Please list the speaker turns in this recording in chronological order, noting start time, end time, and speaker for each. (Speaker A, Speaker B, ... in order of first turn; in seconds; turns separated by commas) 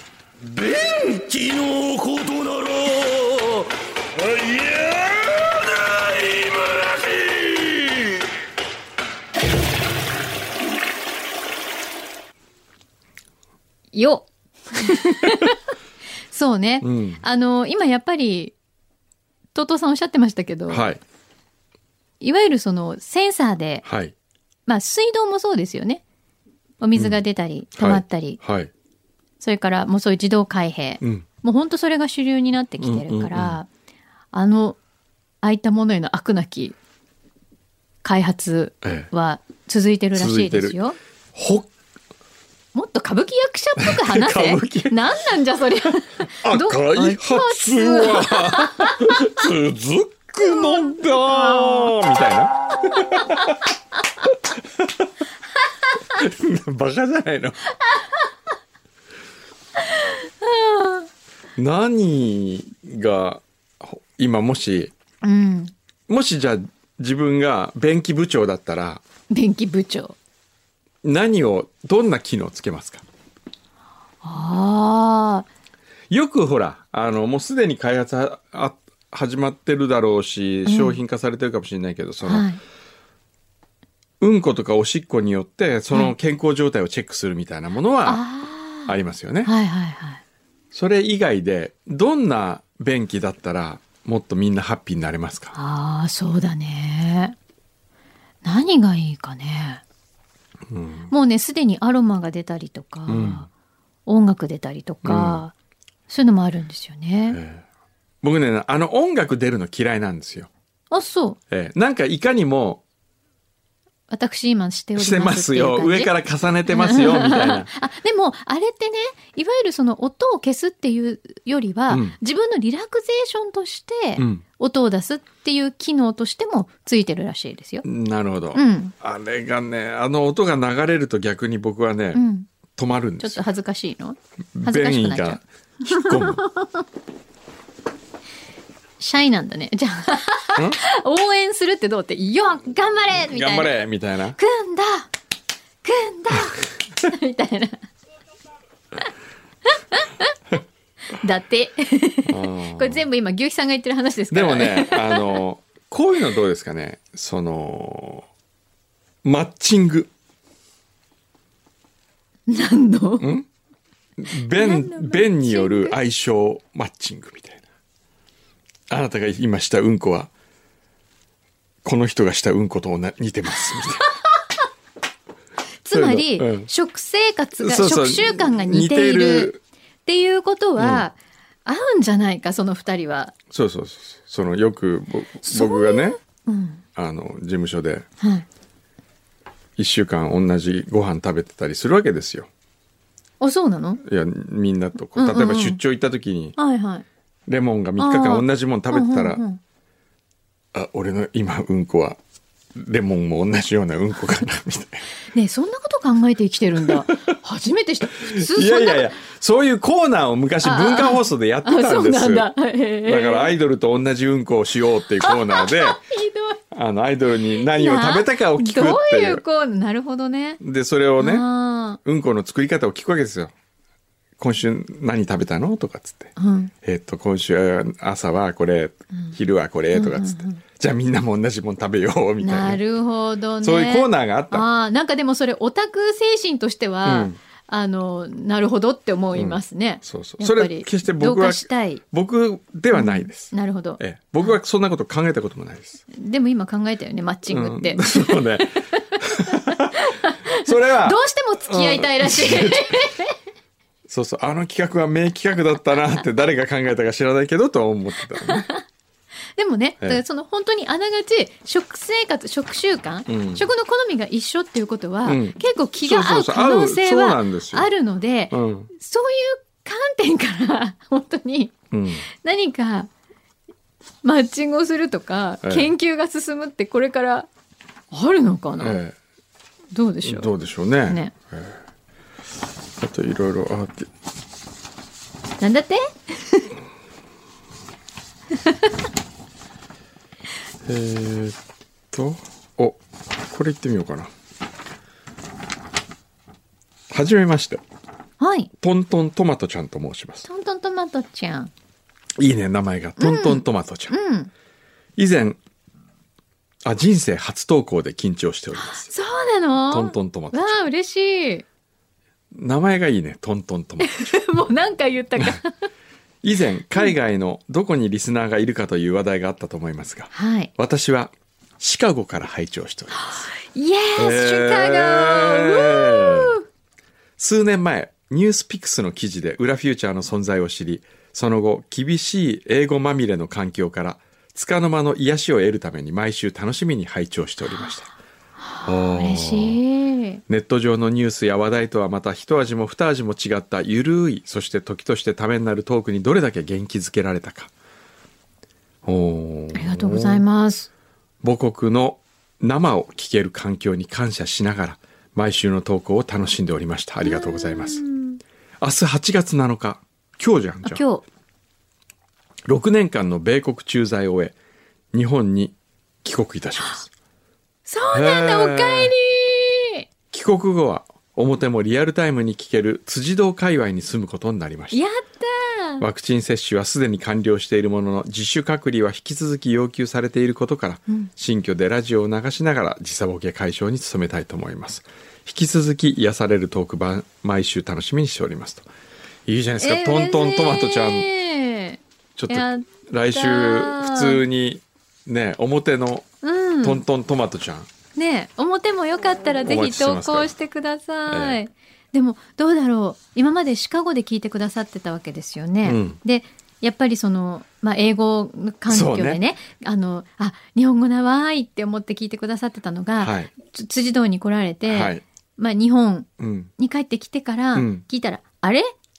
Speaker A: 0.6-8.1, Speaker B: 13.9-15.6, Speaker B: 16.3-18.5, Speaker C: 16.8-17.2, Speaker B: 19.5-20.9, Speaker C: 20.7-21.0, Speaker B: 22.2-23.8, Speaker C: 23.8-24.1, Speaker B: 24.7-26.0, Speaker B: 26.8-28.4, Speaker C: 26.9-27.2, Speaker C: 27.8-28.7, Speaker B: 29.4-33.7, Speaker C: 31.0-31.2, Speaker C: 32.8-33.6, Speaker B: 34.3-34.8, Speaker B: 35.4-36.8, Speaker B: 38.0-41.0, Speaker C: 38.8-39.1, Speaker C: 40.1-40.8, Speaker C: 41.3-41.7, Speaker B: 42.7-49.3, Speaker C: 43.8-45.0, Speaker C: 46.4-53.6, Speaker B: 50.4-52.0, Speaker C: 54.5-55.0, Speaker C: 56.1-57.6, Speaker B: 59.9-61.1, Speaker C: 61.6-64.9, Speaker B: 65.2-65.7, Speaker C: 66.1-69.0, Speaker B: 69.3-70.2, Speaker C: 71.0-73.0, Speaker B: 74.2-75.5, Speaker C: 76.1-82.5, Speaker B: 80.7-81.0, Speaker B: 82.2-82.6, Speaker C: 84.2-88.2, Speaker B: 88.0-90.2, Speaker C: 88.9-89.5, Speaker C: 90.7-95.5, Speaker B: 95.5-97.3, Speaker B: 98.4-99.8, Speaker C: 100.7-101.1, Speaker B: 101.1-103.5, Speaker C: 103.1-103.5, Speaker B: 104.0-105.5, Speaker C: 105.0-105.4, Speaker B: 106.1-107.4, Speaker C: 107.3-107.6, Speaker C: 108.2-110.5, Speaker B: 110.9-111.4, Speaker C: 111.5-112.8, Speaker B: 114.1-116.1, Speaker C: 115.0-117.7, Speaker B: 116.7-127.8, Speaker C: 121.9-122.2, Speaker C: 124.2-124.4, Speaker C: 127.8-132.2, Speaker B: 128.5-128.9, Speaker B: 132.1-132.5, Speaker C: 132.8-133.4, Speaker B: 133.2-136.8, Speaker C: 134.5-136.4, Speaker B: 139.0-143.7, Speaker C: 143.1-144.4, Speaker B: 144.3-145.1, Speaker B: 145.8-147.8, Speaker B: 149.7-150.3, Speaker B: 151.1-155.4, Speaker C: 152.3-153.0, Speaker C: 154.3-158.3, Speaker C: 159.2-160.1, Speaker B: 162.5-163.2, Speaker C: 163.2-163.5, Speaker C: 164.2-167.6, Speaker B: 164.5-166.0, Speaker C: 168.9-170.3, Speaker C: 171.8-174.0, Speaker B: 175.8-179.5, Speaker C: 175.9-176.7, Speaker C: 177.6-179.6, Speaker B: 180.1-183.3, Speaker C: 180.8-181.0, Speaker C: 183.5-186.2, Speaker B: 185.5-186.8, Speaker C: 186.9-188.0, Speaker B: 188.2-188.4, Speaker C: 189.8-192.5, Speaker B: 193.4-194.0, Speaker C: 194.0-196.6, Speaker B: 195.2-195.8, Speaker B: 196.6-197.0, Speaker C: 197.5-199.4, Speaker B: 198.0-199.6, Speaker C: 200.7-202.2, Speaker C: 202.8-205.1, Speaker B: 205.3-209.1, Speaker C: 206.8-207.2, Speaker C: 208.2-212.5, Speaker B: 210.6-213.5, Speaker C: 213.0-216.0, Speaker B: 215.2-216.6, Speaker C: 216.7-219.4, Speaker B: 217.4-220.6, Speaker C: 220.6-221.4, Speaker B: 221.2-222.0, Speaker C: 222.0-223.5, Speaker C: 224.4-226.3, Speaker B: 226.3-226.7, Speaker C: 226.8-232.8, Speaker B: 229.9-230.6, Speaker B: 232.4-242.0, Speaker C: 233.6-234.7, Speaker C: 237.0-237.4, Speaker C: 239.3-246.0, Speaker B: 242.9-244.0, Speaker B: 246.1-248.6, Speaker C: 247.5-249.9, Speaker B: 249.5-253.4, Speaker C: 250.5-252.9, Speaker C: 254.1-258.7, Speaker B: 258.4-258.8, Speaker B: 259.6-271.7, Speaker C: 263.3-263.7, Speaker C: 265.2-267.9, Speaker C: 268.5-268.9, Speaker C: 271.9-272.2, Speaker B: 272.3-273.1, Speaker B: 274.2-277.5, Speaker C: 275.6-275.9, Speaker B: 278.1-279.0, Speaker C: 278.8-279.1, Speaker B: 279.9-280.5, Speaker C: 280.2-281.8, Speaker B: 281.0-281.3, Speaker C: 283.0-284.1, Speaker B: 285.6-286.7, Speaker C: 290.9-291.6, Speaker C: 292.1-294.3, Speaker C: 297.1-297.8, Speaker B: 298.4-298.7, Speaker C: 298.8-300.4, Speaker B: 300.4-301.7, Speaker C: 302.4-304.1, Speaker B: 303.2-304.5, Speaker C: 305.2-305.6, Speaker C: 306.8-309.1, Speaker B: 308.7-311.6, Speaker C: 309.9-310.8, Speaker C: 312.5-314.3, Speaker B: 314.0-315.8, Speaker C: 316.4-323.5, Speaker B: 320.3-320.7, Speaker B: 323.1-326.6, Speaker C: 324.2-326.5, Speaker C: 327.4-338.1, Speaker B: 338.6-340.4, Speaker C: 338.9-339.8, Speaker C: 340.5-347.7, Speaker C: 349.0-350.4, Speaker B: 349.7-350.9, Speaker C: 351.4-358.0, Speaker B: 357.2-358.4, Speaker C: 358.8-361.0, Speaker B: 360.8-361.2, Speaker C: 362.6-364.5, Speaker C: 365.1-367.1, Speaker B: 367.9-370.0, Speaker C: 368.1-369.1, Speaker C: 370.3-375.0, Speaker B: 374.9-376.0, Speaker C: 376.0-388.9, Speaker C: 389.4-391.3, Speaker B: 389.8-394.4, Speaker C: 392.4-396.2, Speaker B: 396.4-397.0, Speaker C: 396.8-397.9, Speaker B: 398.1-418.9, Speaker C: 399.6-400.5, Speaker C: 401.3-401.6, Speaker C: 405.8-406.2, Speaker C: 408.9-409.4, Speaker C: 413.2-413.5, Speaker C: 414.9-415.2, Speaker C: 416.4-416.7, Speaker C: 417.7-418.0